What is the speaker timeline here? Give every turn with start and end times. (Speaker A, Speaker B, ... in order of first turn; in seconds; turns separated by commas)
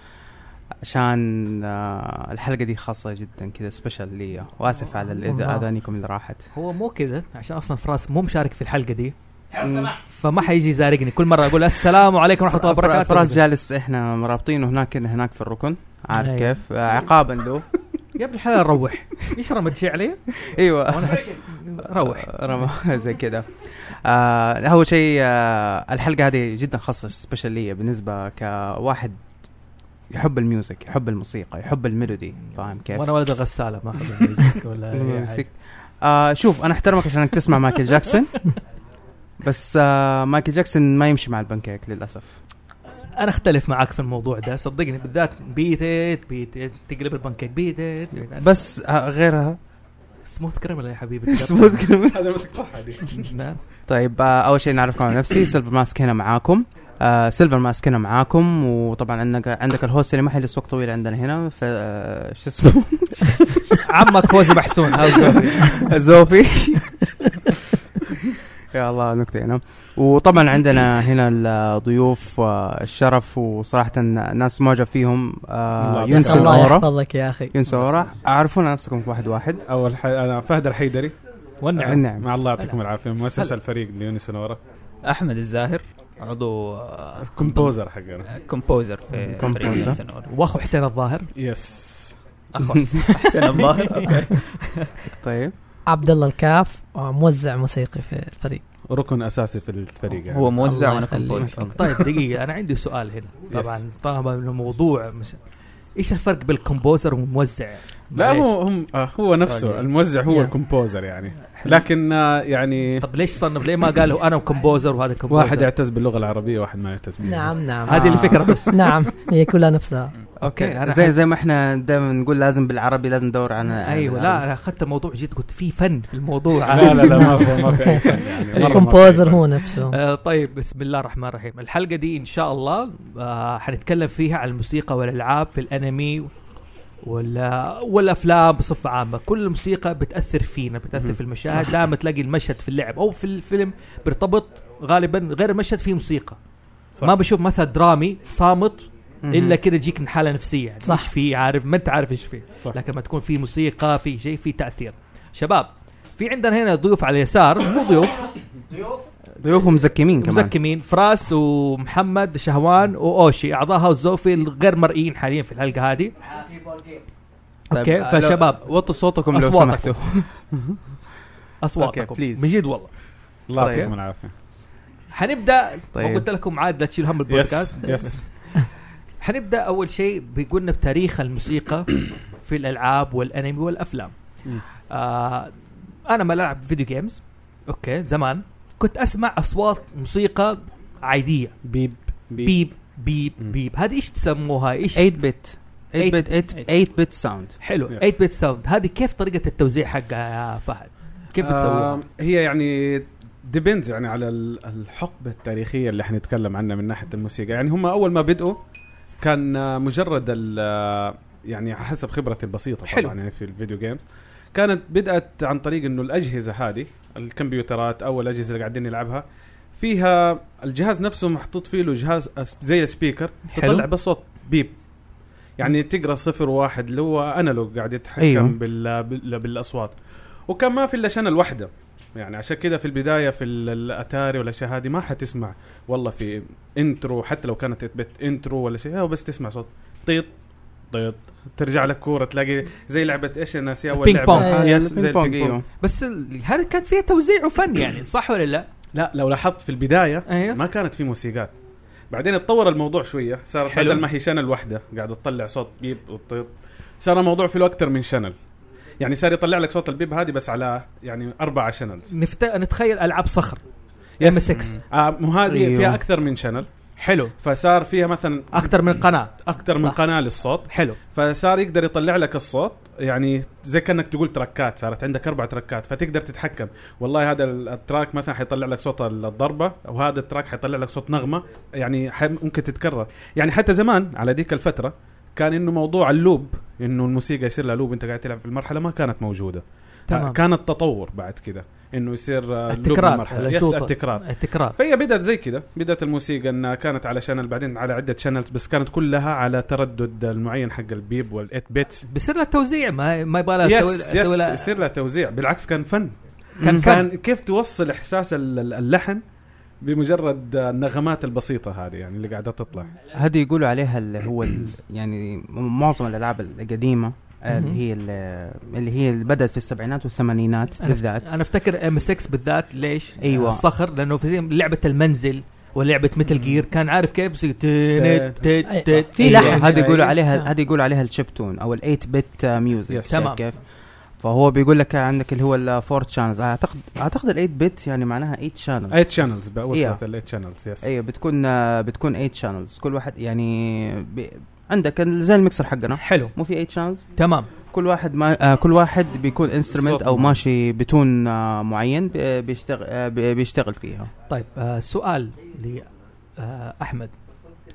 Speaker A: 0.8-6.5, Speaker B: 5.3-5.6, Speaker C: 6.5-9.1, Speaker A: 9.6-10.0, Speaker C: 10.0-13.4, Speaker A: 12.5-17.7, Speaker C: 16.1-16.6, Speaker C: 18.2-20.2, Speaker A: 20.3-29.2, Speaker C: 20.9-22.4, Speaker A: 30.1-33.2, Speaker C: 32.5-35.5, Speaker A: 34.9-38.4, Speaker A: 39.4-42.4, Speaker C: 43.1-48.6, Speaker A: 48.2-49.6, Speaker C: 50.2-51.9, Speaker A: 51.3-52.3, Speaker D: 52.0-53.3, Speaker C: 53.1-53.6, Speaker A: 53.9-67.1, Speaker C: 63.8-65.8, Speaker A: 68.7-76.9, Speaker D: 75.8-76.7, Speaker B: 76.1-77.5, Speaker A: 77.5-79.7, Speaker D: 79.7-81.2, Speaker C: 81.6-82.8, Speaker A: 81.8-82.3, Speaker D: 81.8-84.6, Speaker E: 85.0-90.3, Speaker D: 87.2-88.3, Speaker A: 89.1-90.0, Speaker C: 90.2-91.3, Speaker D: 91.3-92.2, Speaker E: 92.5-94.9, Speaker A: 92.6-93.3, Speaker A: 95.2-95.5, Speaker B: 95.9-98.6, Speaker D: 98.9-100.6, Speaker E: 100.3-101.8, Speaker B: 100.6-101.5, Speaker A: 101.3-102.1, Speaker C: 101.7-105.4, Speaker D: 103.5-103.8, Speaker C: 106.0-108.5, Speaker D: 108.2-113.1, Speaker A: 109.4-109.8, Speaker B: 110.3-110.5, Speaker C: 111.5-111.9, Speaker C: 113.0-115.7, Speaker D: 115.3-117.6, Speaker B: 117.2-120.1, Speaker C: 117.8-118.9, Speaker A: 117.9-118.7, Speaker A: 120.4-124.5, Speaker C: 120.4-121.2, Speaker C: 123.8-128.8, Speaker D: 126.7-129.4, Speaker B: 128.5-130.0, Speaker C: 129.8-136.3, Speaker C: 137.0-146.4, Speaker C: 147.0-158.3, Speaker A: 149.2-149.6, Speaker B: 150.8-151.1, Speaker A: 159.4-160.6, Speaker C: 160.2-166.2, Speaker C: 167.7-168.7, Speaker A: 167.7-170.3, Speaker C: 169.3-169.9, Speaker C: 171.6-172.9, Speaker A: 171.8-172.5, Speaker D: 173.5-174.3, Speaker A: 173.6-173.9, Speaker C: 175.1-178.6, Speaker A: 175.9-176.3, Speaker D: 177.3-178.2, Speaker C: 179.2-184.2, Speaker C: 184.9-185.5, Speaker C: 186.1-191.6, Speaker D: 191.6-192.6, Speaker C: 192.4-195.1, Speaker A: 194.9-197.6, Speaker C: 196.0-196.3, Speaker C: 197.6-202.0, Speaker D: 201.4-208.6, Speaker D: 209.2-214.0, Speaker C: 212.9-213.2, Speaker D: 214.5-219.2, Speaker D: 219.8-224.7, Speaker C: 223.5-223.9, Speaker D: 225.6-230.0, Speaker A: 228.2-228.6, Speaker D: 230.5-240.3, Speaker D: 240.9-245.6, Speaker C: 243.9-244.5, Speaker A: 244.3-245.7, Speaker B: 244.4-244.8, Speaker C: 245.8-248.7, Speaker D: 248.9-251.5, Speaker C: 250.3-250.6, Speaker D: 252.1-258.4, Speaker C: 253.7-254.1, Speaker D: 259.0-262.1, Speaker C: 262.1-263.6, Speaker D: 264.2-266.7, Speaker C: 264.2-264.8, Speaker A: 265.5-266.0, Speaker C: 267.0-267.3, Speaker D: 267.4-302.1, Speaker C: 268.5-269.3, Speaker C: 270.7-271.0, Speaker C: 290.1-290.4, Speaker C: 292.7-294.8, Speaker C: 302.1-304.7, Speaker D: 303.6-309.2, Speaker A: 306.6-307.0, Speaker C: 306.6-307.1, Speaker D: 309.8-313.0, Speaker A: 313.1-321.4, Speaker C: 317.5-317.8, Speaker C: 320.8-329.6, Speaker A: 323.2-323.6, Speaker D: 326.3-326.6, Speaker D: 328.0-328.6, Speaker B: 328.6-329.8, Speaker A: 329.2-333.6, Speaker D: 329.2-330.2, Speaker D: 332.9-333.2, Speaker C: 333.1-333.4, Speaker A: 334.2-339.1, Speaker D: 338.9-340.9, Speaker A: 339.7-340.0, Speaker A: 340.8-347.1, Speaker C: 346.0-346.3, Speaker C: 347.2-347.5, Speaker A: 347.7-354.1, Speaker D: 349.7-350.4, Speaker C: 354.3-355.9, Speaker C: 356.4-357.1